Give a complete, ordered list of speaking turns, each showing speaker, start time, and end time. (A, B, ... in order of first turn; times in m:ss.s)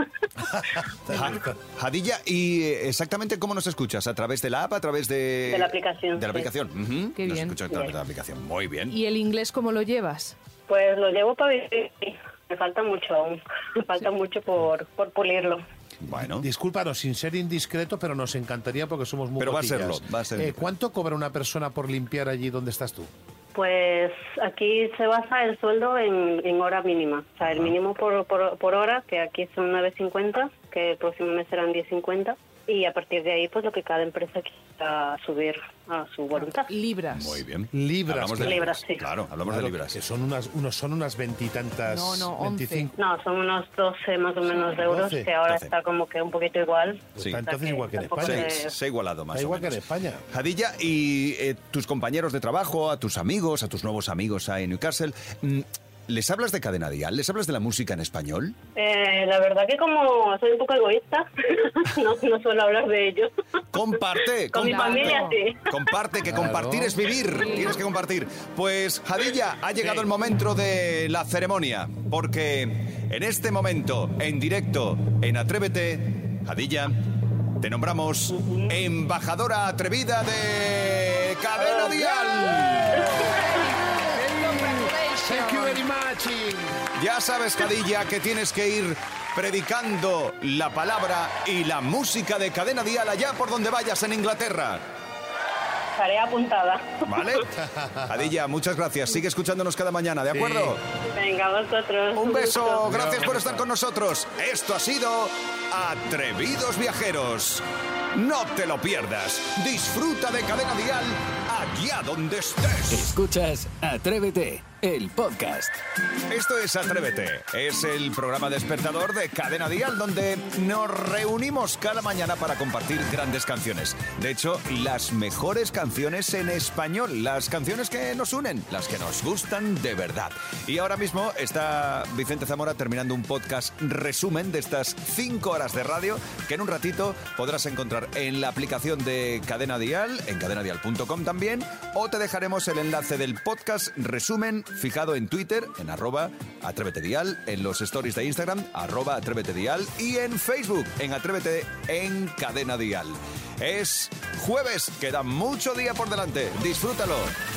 0:00.5-0:01.5 A
0:01.1-0:08.9 B
0:05.5-0:06.5 C
0:07.2-0:07.6 D
0:07.7-0:08.0 C
0:08.9-0:10.4 D
0:10.7-0:15.6 C
0:16.0-0:16.5 B
0:16.2-0:23.1 A
0:19.4-0:20.7 B
0:23.6-0:36.7 C
0:27.4-0:27.8 B
0:36.7-0:37.4 D
0:37.1-0:40.0 B
0:37.7-0:38.8 A
0:38.4-0:39.1 C
0:39.5-0:43.0 A
0:41.9-0:42.9 D
0:43.0-0:48.7 C
0:44.7-0:45.3 A
0:45.5-0:45.7 B
0:47.2-0:48.7 A
0:48.2-0:58.6 B
0:49.3-0:50.2 A
0:58.8-1:03.3 C
1:03.7-1:17.0 B
1:04.5-1:05.8 C
1:04.6-1:05.4 D
1:06.3-1:07.0 A
1:07.3-1:07.8 D
1:09.8-1:10.1 A
1:17.6-1:23.2 B
1:23.0-1:25.8 D
1:24.4-1:26.8 A
1:27.0-1:34.8 B
1:36.0-1:37.4 C
1:37.0-1:37.5 B
1:37.6-1:38.1 A
1:38.1-1:40.8 B
1:40.3-1:40.8 A
1:41.1-1:42.8 C
1:42.2-1:47.6 B
1:42.8-1:43.6 A
1:48.2-1:53.2 B
1:52.9-1:55.8 E
1:56.3-2:37.3 B